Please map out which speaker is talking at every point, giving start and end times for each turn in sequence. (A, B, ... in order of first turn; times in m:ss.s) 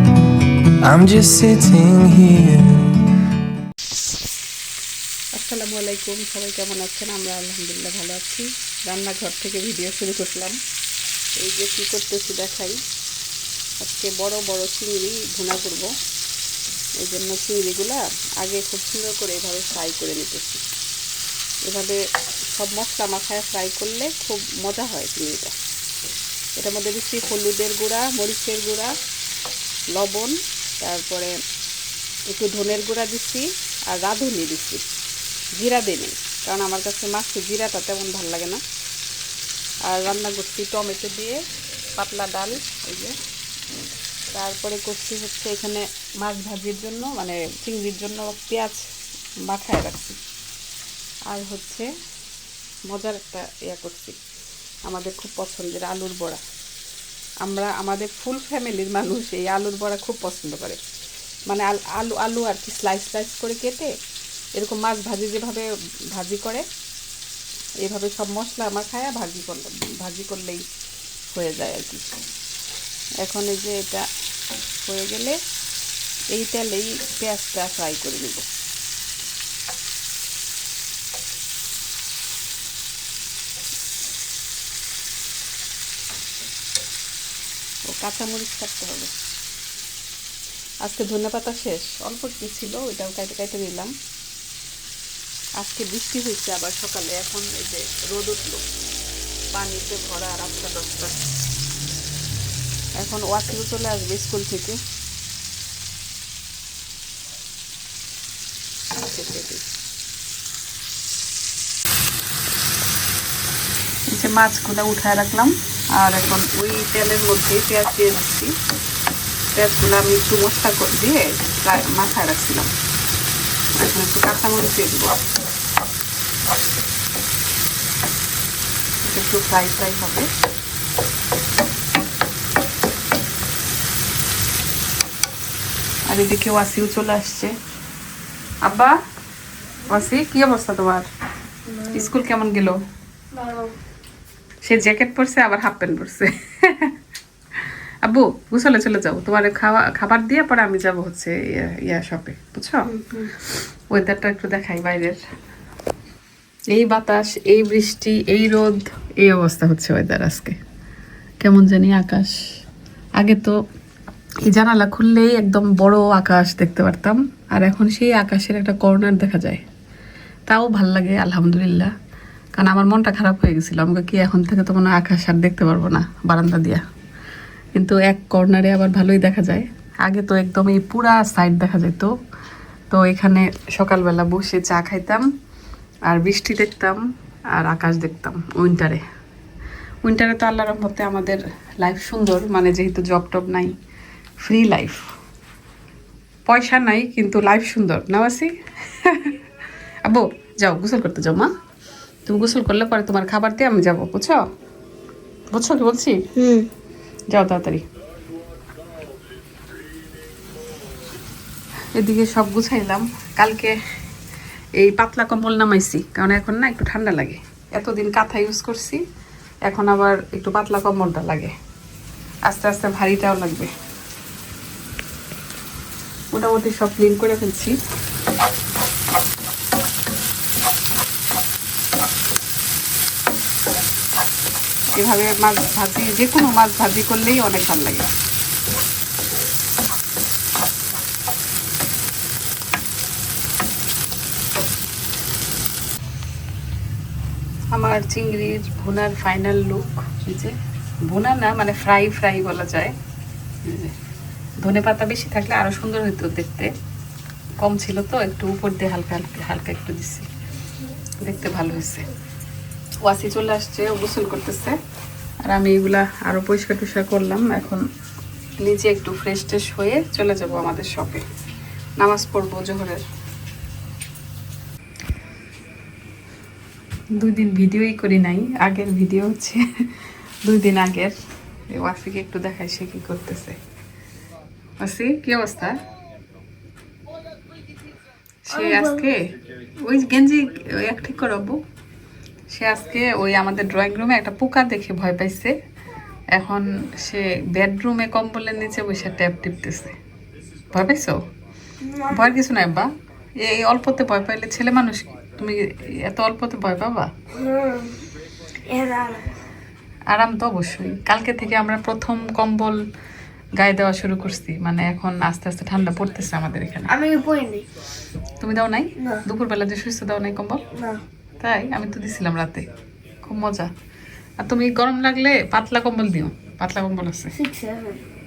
0:00.8-0:02.9 A
0:05.4-0:10.6 B
0:11.4-0:12.8 B
0:13.8-0:15.9 B
0:17.0-0:20.6 B
0:21.6-0:22.0 B
0:22.5-0:25.6 B
0:26.6-0:28.9 B
0:30.0-0:31.3 B
0:32.3-0:34.9 B
0:35.6-0:38.6 B
0:39.9-0:41.4 B
0:42.0-0:43.2 B
0:44.3-0:48.9 B
0:49.5-0:50.2 B
0:51.3-0:51.9 B
0:52.9-0:54.2 B
0:54.9-0:56.4 B
0:57.4-1:00.8 B
1:01.5-1:03.9 B
1:04.6-1:06.6 B
1:07.8-1:10.6 B
1:11.3-1:12.0 B
1:13.2-1:14.1 B
1:14.8-1:15.4 B
1:16.3-1:18.4 B
1:27.9-1:29.1 B
1:30.8-1:33.9 B
1:35.6-1:38.7 B
1:39.5-1:41.2 B
1:43.0-1:44.8 B
1:49.0-1:49.6 B
1:54.1-1:58.6 B
1:59.5-2:02.7 B
2:03.8-2:05.2 B
2:09.0-2:10.3 B
2:16.1-2:17.5 B
2:18.6-2:19.0 B
2:19.9-2:21.1 B
2:21.7-2:22.1 C
2:21.9-2:22.8 B
2:23.3-2:23.7 C
2:24.6-2:26.9 B
2:28.0-2:35.2 B
2:32.9-2:33.3 C
2:36.7-2:40.6 B
2:41.4-2:42.4 B
2:43.2-2:43.6 B
2:44.4-2:49.6 B
2:50.5-2:51.9 B
2:52.6-2:56.8 B
2:57.8-3:02.1 B
3:02.9-3:05.2 B
3:06.1-3:07.0 B
3:07.5-3:09.0 B
3:10.0-3:13.7 B
3:14.4-3:15.1 B
3:16.5-3:19.4 B
3:20.0-3:21.5 B
3:22.3-3:24.4 B
3:25.5-3:26.3 B
3:26.4-3:26.7 C
3:27.3-3:27.8 B
3:31.9-3:33.7 B
3:34.8-3:39.0 B
3:39.7-3:41.5 B
3:42.5-3:43.7 B
3:46.3-3:47.8 B
3:54.9-3:58.1 B
4:07.7-4:10.5 B
4:11.1-4:12.9 B
4:13.6-4:14.0 B
4:14.6-4:16.7 B
4:17.6-4:20.3 B
4:21.2-4:22.1 B
4:23.0-4:24.8 B
4:25.5-4:27.8 B
4:28.6-4:31.2 B
4:32.0-4:33.0 B
4:37.2-4:39.6 B
4:40.4-4:41.2 B
4:41.7-4:43.6 B
4:44.8-4:45.8 B
4:48.5-4:49.2 B
4:48.6-4:49.0 C
4:49.8-4:51.6 B
4:52.5-4:55.5 B
4:56.3-5:00.0 B
5:00.7-5:01.2 B
5:01.9-5:02.2 C
5:02.0-5:02.9 B
5:03.4-5:07.1 B
5:07.4-5:08.0 C
5:08.7-5:09.3 C
5:10.1-5:12.8 B
5:13.6-5:16.9 B
5:16.9-5:17.6 C
5:18.4-5:20.7 B
5:20.7-5:21.0 C
5:21.4-5:22.7 B
5:23.2-5:23.7 B
5:24.4-5:27.4 B
5:27.3-5:28.0 C